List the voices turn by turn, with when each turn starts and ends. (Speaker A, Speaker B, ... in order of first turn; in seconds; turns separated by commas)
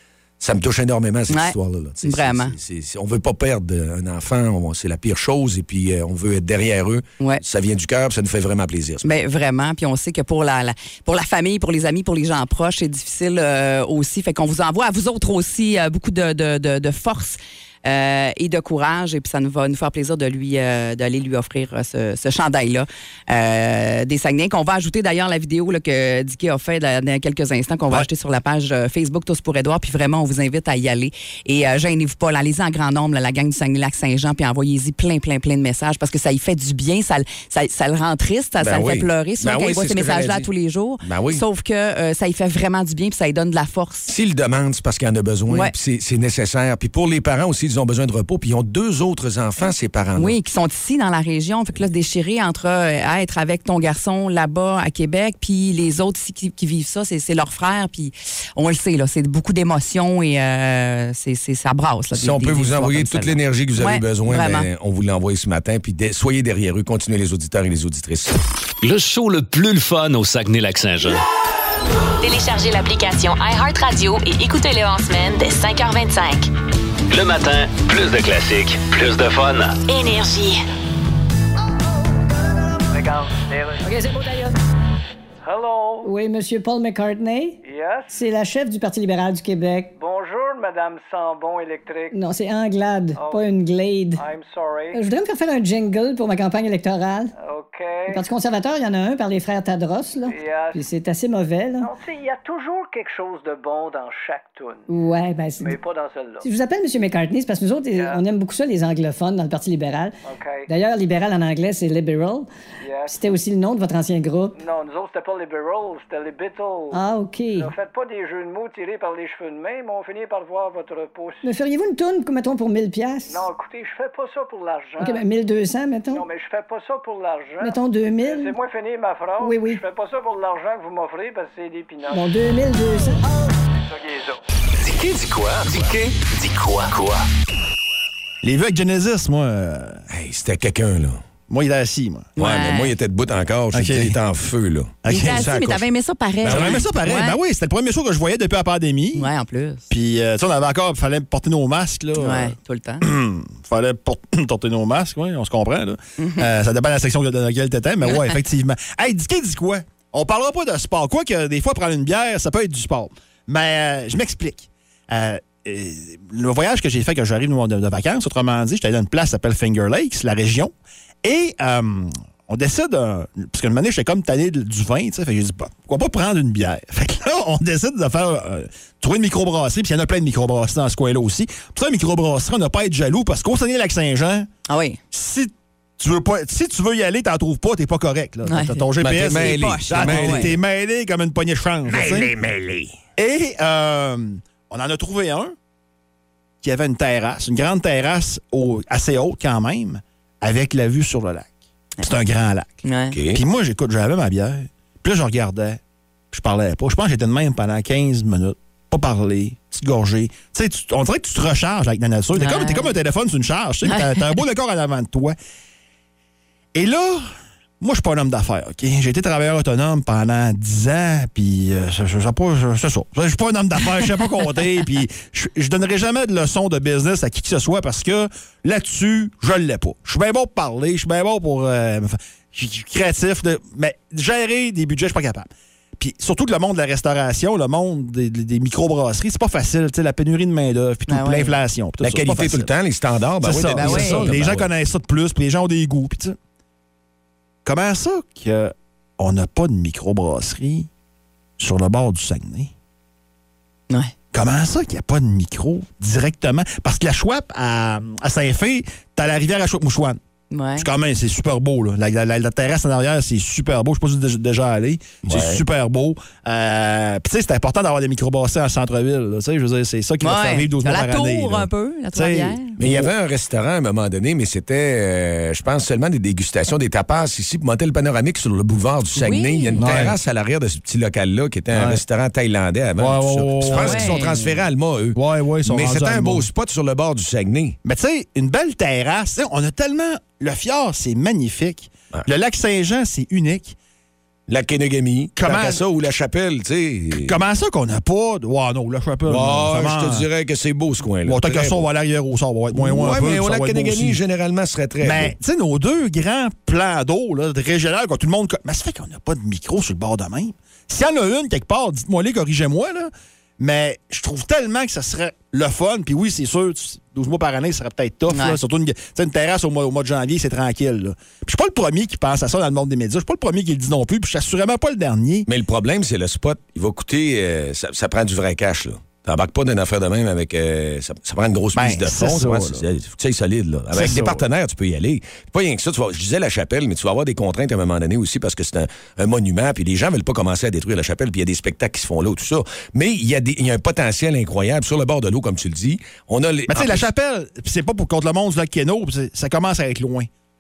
Speaker A: 0.4-9.1, Speaker B: 1.3-2.5, Speaker B: 9.0-44.1, Speaker A: 38.6-40.5, Speaker A: 41.0-41.4, Speaker A: 44.1-50.4, Speaker B: 50.2-64.7, Speaker A: 62.1-68.4, Speaker C: 68.8-71.2, Speaker D: 72.2-76.5, Speaker C: 77.1-79.8, Speaker D: 79.9-80.6, Speaker E: 82.9-83.9, Speaker F: 83.8-84.5, Speaker E: 85.4-86.1, Speaker F: 86.0-87.6, Speaker E: 87.6-88.2, Speaker F: 88.1-89.9, Speaker E: 90.0-92.2, Speaker F: 92.1-94.2, Speaker E: 93.2-93.5, Speaker E: 94.2-95.0, Speaker F: 94.9-97.3, Speaker E: 97.4-98.2, Speaker F: 98.1-101.9, Speaker E: 100.2-100.8, Speaker E: 101.8-104.9, Speaker F: 104.9-105.8, Speaker E: 105.6-106.5, Speaker F: 106.4-110.1, Speaker E: 107.9-108.2, Speaker E: 110.2-110.7, Speaker F: 110.7-112.5, Speaker E: 112.8-113.3, Speaker F: 113.1-114.6, Speaker E: 114.6-117.0, Speaker F: 116.9-117.7, Speaker E: 117.5-121.4, Speaker F: 121.4-123.4, Speaker E: 123.3-125.3, Speaker F: 125.0-126.2, Speaker E: 126.1-132.3, Speaker F: 127.6-128.5, Speaker F: 129.4-129.8, Speaker F: 132.1-133.2, Speaker E: 133.9-134.4, Speaker C: 134.8-137.2, Speaker G: 138.4-140.0, Speaker A: 140.1-141.2, Speaker G: 141.5-142.3, Speaker B: 142.4-142.9, Speaker A: 142.4-145.8, Speaker G: 143.7-144.2, Speaker G: 145.0-145.5, Speaker B: 145.1-147.4, Speaker G: 146.4-149.3, Speaker A: 146.4-146.8, Speaker B: 149.2-149.8, Speaker G: 149.9-184.5, Speaker B: 152.2-153.1, Speaker B: 156.2-156.5, Speaker B: 158.1-158.4, Speaker B: 184.7-185.0, Speaker G: 185.1-192.3, Speaker B: 188.5-190.5, Speaker A: 189.0-190.6, Speaker A: 191.9-192.9, Speaker G: 193.2-195.6, Speaker G: 196.6-202.8, Speaker B: 202.8-203.2, Speaker A: 203.1-203.4, Speaker G: 203.3-205.8, Speaker G: 206.3-215.4, Speaker B: 212.3-212.9, Speaker B: 213.9-214.2, Speaker G: 216.7-242.7, Speaker B: 241.1-241.6, Speaker A: 242.0-244.7, Speaker G: 243.4-246.4, Speaker B: 243.8-244.3, Speaker G: 247.7-250.9, Speaker G: 251.6-252.7, Speaker G: 254.3-260.2, Speaker B: 260.5-260.9, Speaker G: 260.8-273.1, Speaker A: 265.2-265.6, Speaker B: 270.2-272.8, Speaker A: 272.8-287.8, Speaker B: 279.1-279.9, Speaker G: 279.8-280.2, Speaker G: 281.7-282.0, Speaker G: 283.0-284.6, Speaker B: 283.7-284.4, Speaker G: 285.1-286.5, Speaker G: 287.8-293.8, Speaker A: 294.5-297.4, Speaker G: 295.4-295.8, Speaker G: 297.2-300.3, Speaker A: 299.3-301.9, Speaker G: 301.2-304.2, Speaker A: 302.7-305.3, Speaker G: 305.0-325.5, Speaker B: 318.3-318.6, Speaker A: 325.5-347.1, Speaker G: 331.8-332.9, Speaker G: 333.9-334.4, Speaker G: 346.7-350.3